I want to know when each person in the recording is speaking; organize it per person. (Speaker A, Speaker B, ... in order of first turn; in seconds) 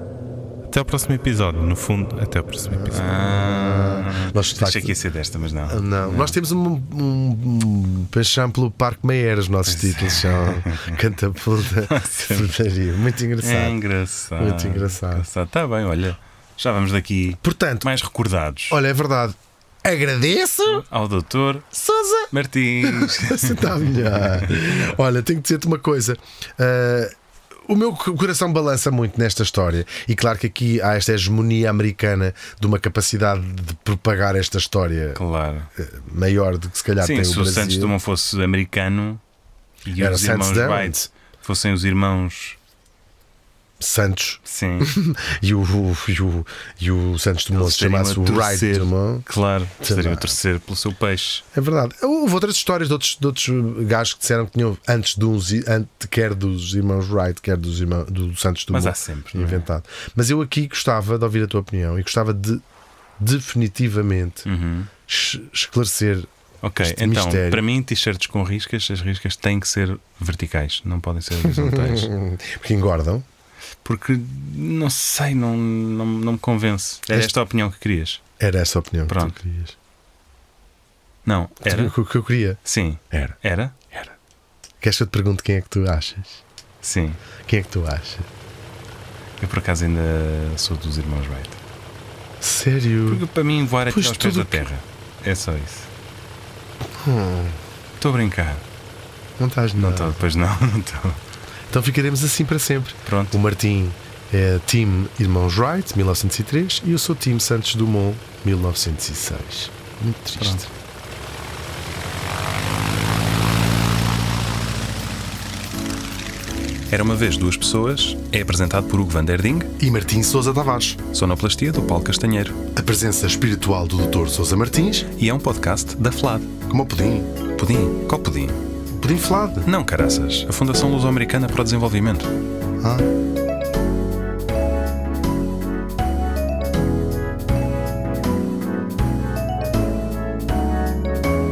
Speaker A: 0.7-3.0
Speaker B: 2.7-5.0, 5.7-13.8, 14.4-15.3, 17.4-17.9, 18.7-20.8, 21.7-22.3, 22.8-27.1, 27.7-35.2, 35.8-38.0, 40.0-41.1, 43.8-49.3, 49.8-50.4, 51.5-62.6, 63.2-64.5, 65.1-66.3, 66.8-67.6, 71.4-73.2, 78.4-79.8, 81.7-82.6, 83.1-83.4, 84.8-86.4, 87.5-88.3, 92.4-93.2, 93.9-94.7, 96.9-97.6, 99.4-100.2, 101.7-110.7, 119.8-121.0, 122.8-125.1, 126.7-127.3, 129.0-129.7, 132.8-133.1
Speaker C: 2.9-6.4, 9.7-11.0, 11.8-12.5, 13.4-18.8, 20.7-21.7, 22.3-24.9, 35.1-35.7, 37.0-39.2, 39.9-42.6, 44.5-44.9, 47.5-51.4, 58.7-59.6, 64.5-64.9, 66.6-72.1, 73.8-78.2, 79.1-79.4, 81.2-82.0, 82.7-83.9, 86.8-87.2, 89.4-91.6, 93.1-95.9, 98.0-98.7, 99.8-101.2, 103.1-103.4, 110.4-110.7, 116.9-119.7, 121.1-122.6, 125.1-126.5, 127.6-128.6, 129.6-132.3